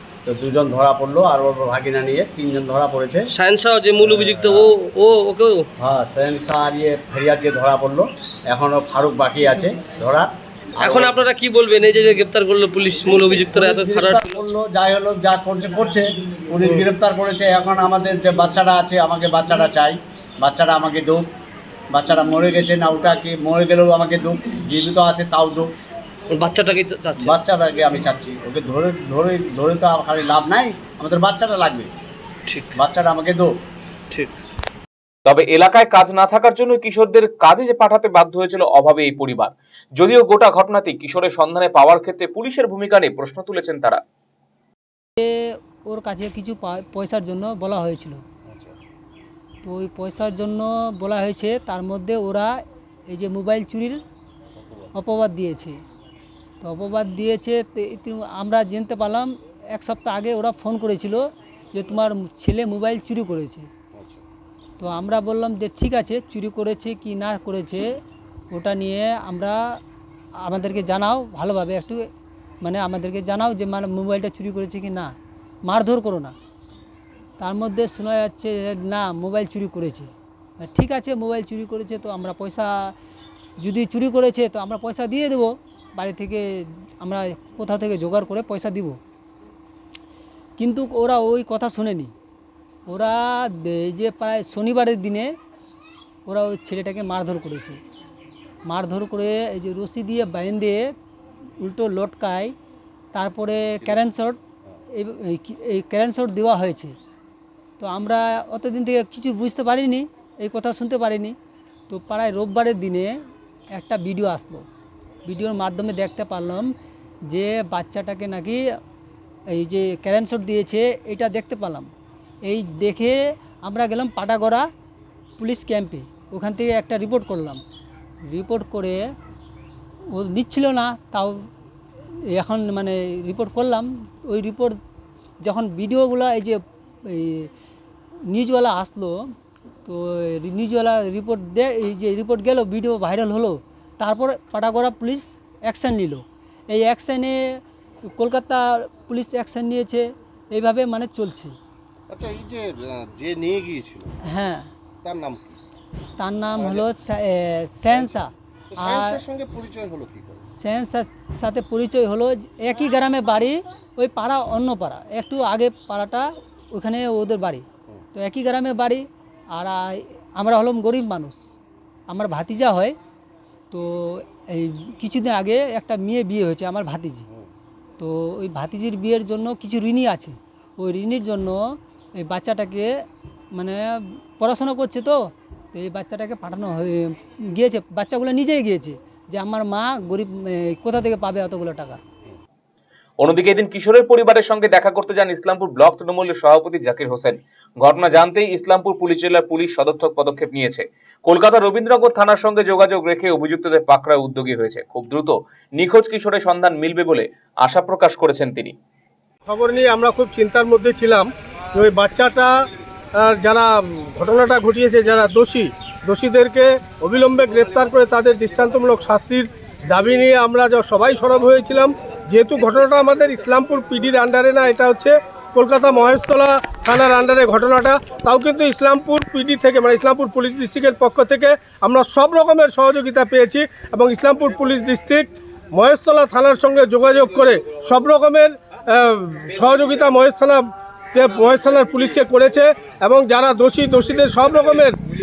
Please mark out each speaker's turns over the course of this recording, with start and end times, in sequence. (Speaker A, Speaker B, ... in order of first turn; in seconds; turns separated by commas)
Speaker A: 0.2-3.2, Speaker B: 3.3-5.7, Speaker A: 4.0-4.7, Speaker A: 5.8-11.2, Speaker B: 10.8-14.5, Speaker A: 13.5-21.3, Speaker B: 16.6-16.9, Speaker A: 21.9-25.7, Speaker B: 26.3-27.4, Speaker A: 27.2-31.9, Speaker B: 32.5-32.8, Speaker A: 32.7-33.5, Speaker C: 35.2-44.0, Speaker D: 45.9-48.2, Speaker E: 48.5-48.8, Speaker D: 49.6-52.5, Speaker D: 53.1-54.0, Speaker E: 54.5-54.9, Speaker D: 54.9-55.8, Speaker D: 56.6-61.2, Speaker D: 61.7-63.7, Speaker E: 63.9-64.2, Speaker D: 64.8-67.9, Speaker D: 68.5-69.6, Speaker D: 70.4-72.0, Speaker D: 72.6-75.1, Speaker D: 75.7-76.3, Speaker D: 77.4-82.9, Speaker D: 83.6-86.4, Speaker D: 87.0-89.0, Speaker D: 90.6-92.1, Speaker D: 92.9-95.3, Speaker D: 96.2-97.8, Speaker D: 98.7-100.9, Speaker D: 101.6-102.5, Speaker D: 103.1-104.4, Speaker D: 104.9-106.9, Speaker D: 107.8-111.3, Speaker D: 111.9-113.1, Speaker D: 113.7-114.7, Speaker D: 115.2-116.7, Speaker D: 117.3-118.6, Speaker D: 119.5-121.9, Speaker D: 122.4-124.7, Speaker D: 125.4-127.6, Speaker D: 128.3-129.0, Speaker D: 130.1-131.4, Speaker D: 132.3-134.8, Speaker D: 135.4-137.5, Speaker D: 138.3-139.2, Speaker D: 139.8-147.4, Speaker D: 148.2-151.5, Speaker E: 152.1-154.1, Speaker D: 154.3-154.7, Speaker E: 155.0-155.6, Speaker D: 156.2-159.2, Speaker E: 156.5-156.8, Speaker E: 157.9-160.5, Speaker D: 160.6-171.4, Speaker D: 172.1-172.9, Speaker D: 173.7-177.3, Speaker D: 178.0-181.6, Speaker D: 182.2-182.9, Speaker D: 183.5-183.8, Speaker D: 184.4-185.2, Speaker D: 185.7-192.0, Speaker C: 193.2-208.7, Speaker F: 209.4-212.5, Speaker F: 213.2-240.6, Speaker F: 241.1-244.9